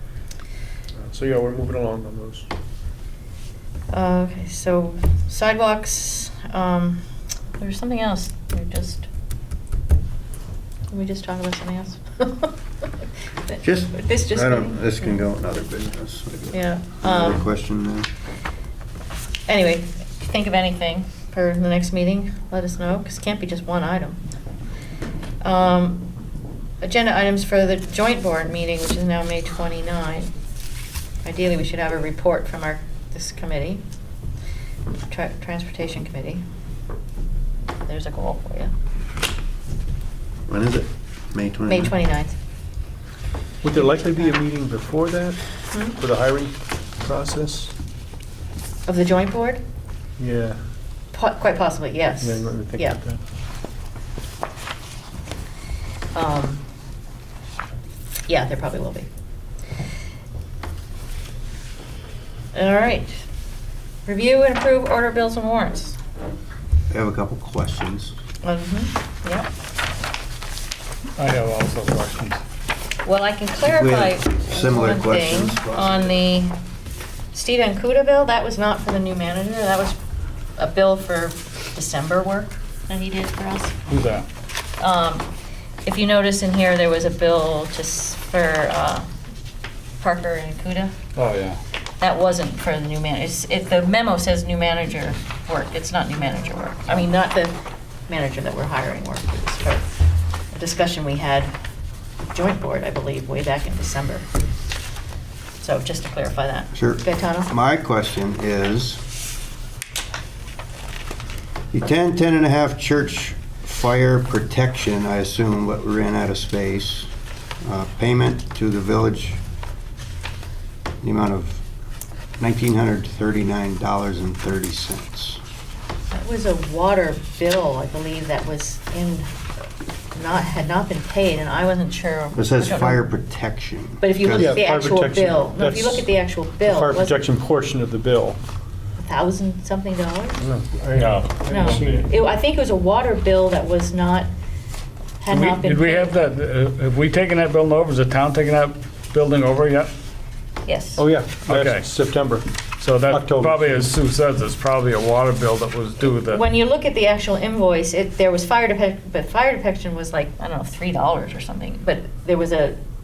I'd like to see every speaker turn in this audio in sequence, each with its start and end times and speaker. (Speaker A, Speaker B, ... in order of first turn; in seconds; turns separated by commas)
Speaker A: 0.9-2.5, Speaker B: 3.9-7.0, Speaker B: 7.5-9.1, Speaker B: 10.9-12.6, Speaker B: 13.4-15.2, Speaker C: 13.6-18.1, Speaker B: 16.5-17.5, Speaker B: 19.5-24.2, Speaker B: 25.4-26.0, Speaker B: 26.8-30.3, Speaker B: 31.2-33.8, Speaker B: 35.1-36.4, Speaker B: 37.8-38.7, Speaker C: 40.5-41.9, Speaker B: 41.7-42.4, Speaker A: 43.6-45.4, Speaker B: 43.7-44.3, Speaker A: 45.9-47.7, Speaker B: 48.9-49.6, Speaker A: 50.2-50.6, Speaker B: 51.1-53.0, Speaker A: 52.2-53.2, Speaker B: 56.1-56.6, Speaker B: 58.3-59.1, Speaker B: 62.5-63.2, Speaker B: 64.0-66.0, Speaker C: 66.9-68.1, Speaker B: 68.4-69.5, Speaker D: 71.2-72.4, Speaker B: 73.0-76.5, Speaker C: 73.6-76.1, Speaker B: 77.3-80.0, Speaker B: 80.6-83.8, Speaker D: 83.9-84.2, Speaker B: 84.8-85.3, Speaker B: 85.8-89.1, Speaker B: 90.0-90.9, Speaker D: 91.1-91.6, Speaker B: 92.0-97.6, Speaker B: 98.1-99.9, Speaker B: 100.5-101.5, Speaker B: 102.3-104.2, Speaker B: 105.6-107.5, Speaker C: 106.7-109.0, Speaker C: 111.7-117.1, Speaker C: 117.6-119.4, Speaker C: 121.0-121.6, Speaker C: 122.4-125.4, Speaker B: 126.1-129.3, Speaker B: 130.1-133.0, Speaker C: 132.3-134.7, Speaker B: 134.0-137.2, Speaker A: 134.3-136.1, Speaker A: 136.6-138.4, Speaker B: 139.0-140.4, Speaker A: 140.4-142.1, Speaker D: 140.9-141.9, Speaker B: 141.5-144.3, Speaker B: 145.2-146.1, Speaker D: 145.3-149.9, Speaker B: 150.6-151.0, Speaker A: 151.0-152.4, Speaker D: 151.5-151.9, Speaker D: 152.8-156.4, Speaker A: 153.1-153.9, Speaker B: 156.3-162.8